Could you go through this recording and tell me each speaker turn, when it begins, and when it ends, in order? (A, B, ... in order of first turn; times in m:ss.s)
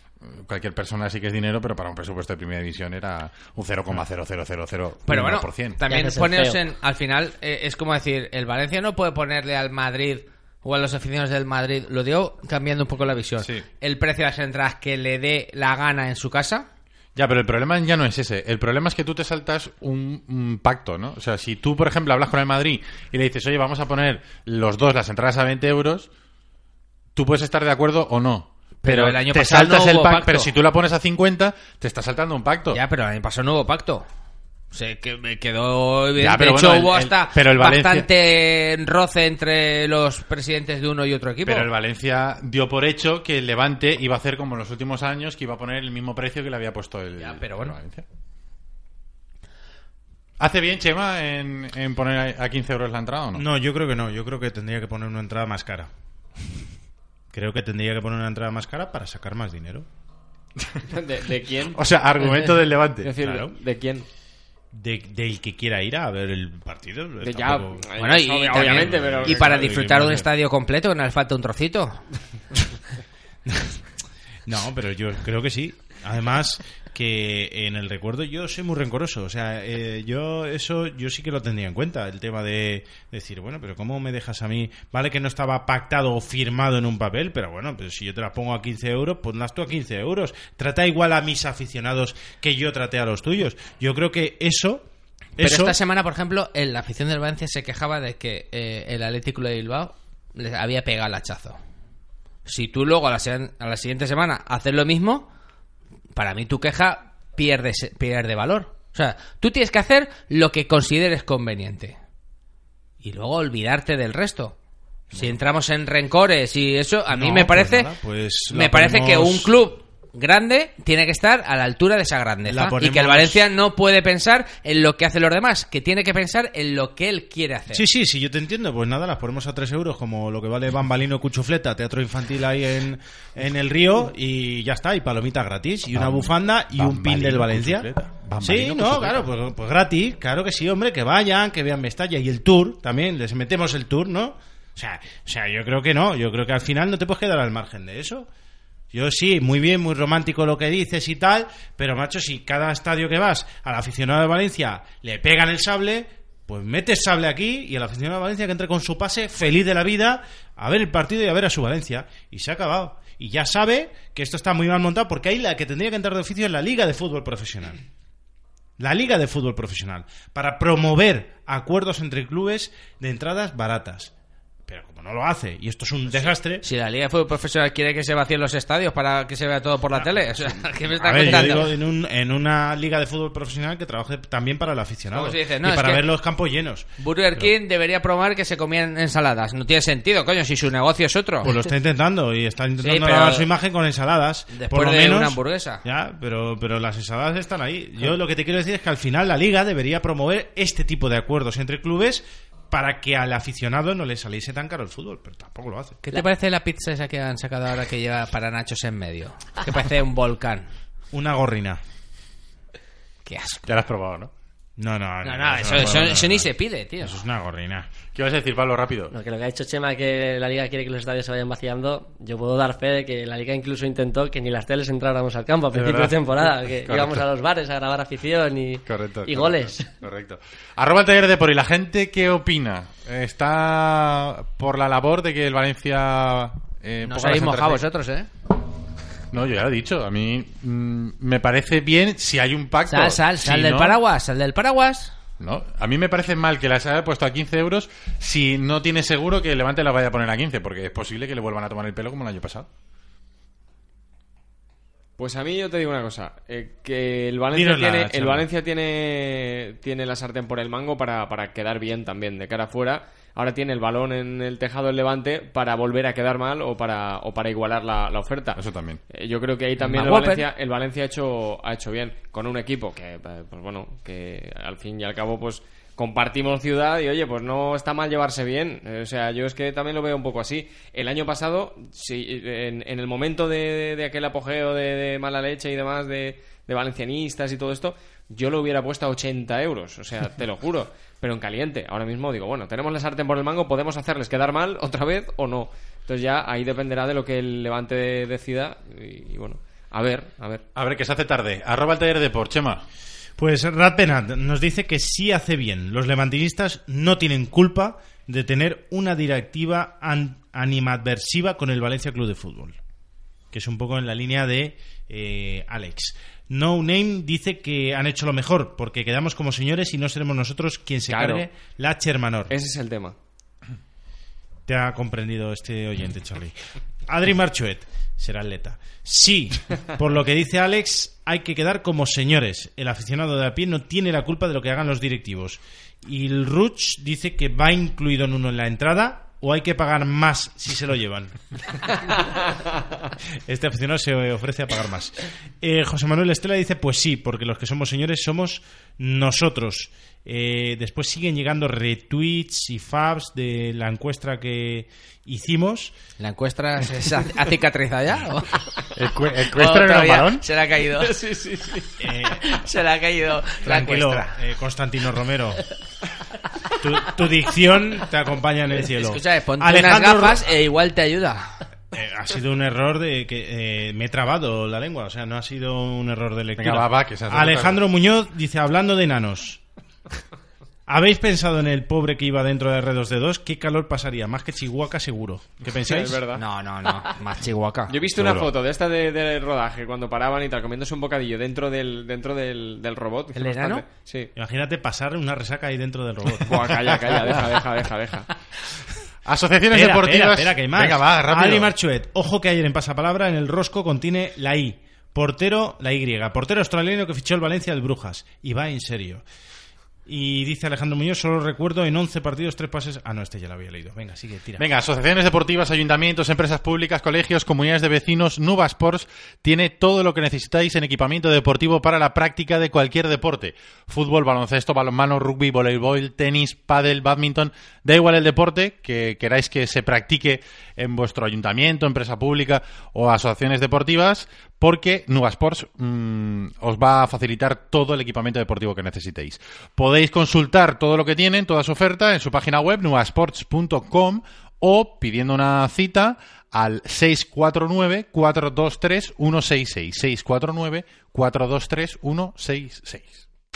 0:00.2-0:05.8 A
0:05.1-0:16.7 B
0:05.9-0:06.6 C
0:13.4-0:13.7 A
0:17.2-0:26.1 A
0:27.2-0:32.8 A
0:28.8-0:30.5 B
0:32.7-0:34.1 B
0:34.7-0:41.7 B
0:36.2-0:38.1 A
0:41.4-0:48.0 A
0:47.2-0:47.7 B
0:50.4-0:53.5 A
0:53.3-0:55.9 D
0:57.3-0:59.9 D
1:00.9-1:01.8 E
1:01.7-1:03.1 A
1:03.0-1:04.1 E
1:03.2-1:03.5 D
1:04.7-1:07.9 D
1:07.2-1:09.6 E
1:08.0-1:12.0 B
1:08.5-1:10.3 D
1:13.5-1:13.8 D
1:14.5-1:34.8 D
1:35.4-1:35.8 D
1:35.4-1:41.6 B
1:42.5-1:45.3 B
1:46.2-1:52.0 B
1:53.0-1:54.6 B
1:55.1-1:57.9 B
1:57.1-1:59.5 D
1:58.5-2:07.8 B
2:02.5-2:03.4 D
2:07.7-2:28.3 D
2:15.9-2:19.3 A
2:28.9-2:47.8 D
2:48.8-2:54.1 D
2:54.7-2:56.6 D
2:56.1-3:01.8 B
3:00.9-3:07.5 D
3:05.1-3:06.0 B
3:07.0-3:11.6 B
3:11.4-3:26.1 D
3:12.8-3:13.5 B
3:14.5-3:15.8 B
3:26.0-3:30.7 B
3:31.1-3:31.8 D
3:33.2-3:33.7 B
3:33.7-3:34.3 A
3:34.8-3:36.5 D
3:35.2-3:37.2 B
3:37.0-3:37.9 D
3:38.1-3:39.1 A
3:39.1-3:49.9 C
3:45.7-3:47.3 A
3:48.9-3:57.8 A
3:57.0-3:58.3 B
3:59.3-4:04.0 A
4:02.9-4:05.1 B
4:05.4-4:12.7 A
4:15.2-5:00.6 E
4:17.5-4:18.5 D
4:28.6-4:29.0 A
4:29.8-4:30.4 B
5:00.8-5:02.8 A
5:03.4-5:12.8 D
5:13.5-5:22.5 D
5:21.1-5:21.5 E
5:22.5-5:23.2 E
5:24.7-5:26.6 D
5:27.1-5:41.4 D
5:43.5-5:55.9 D
5:56.2-5:58.6 B
5:59.0-6:00.4 A
5:59.5-6:01.2 B
6:01.0-6:01.9 E
6:02.0-6:02.5 D
6:02.4-6:04.4 B
6:03.6-6:05.7 D
6:06.8-6:10.5 D
6:09.0-6:11.6 B
6:11.9-6:19.6 D
6:16.6-6:17.8 A
6:20.9-6:26.2 D
6:25.9-6:26.4 E
6:26.4-6:27.9 B
6:27.9-6:34.3 E
6:28.1-6:28.5 A
6:33.4-6:33.8 B
6:34.4-6:37.6 D
6:36.4-6:38.3 E
6:39.3-6:41.7 A
6:39.7-6:49.2 D
6:50.1-6:54.6 D
6:54.6-7:33.2 A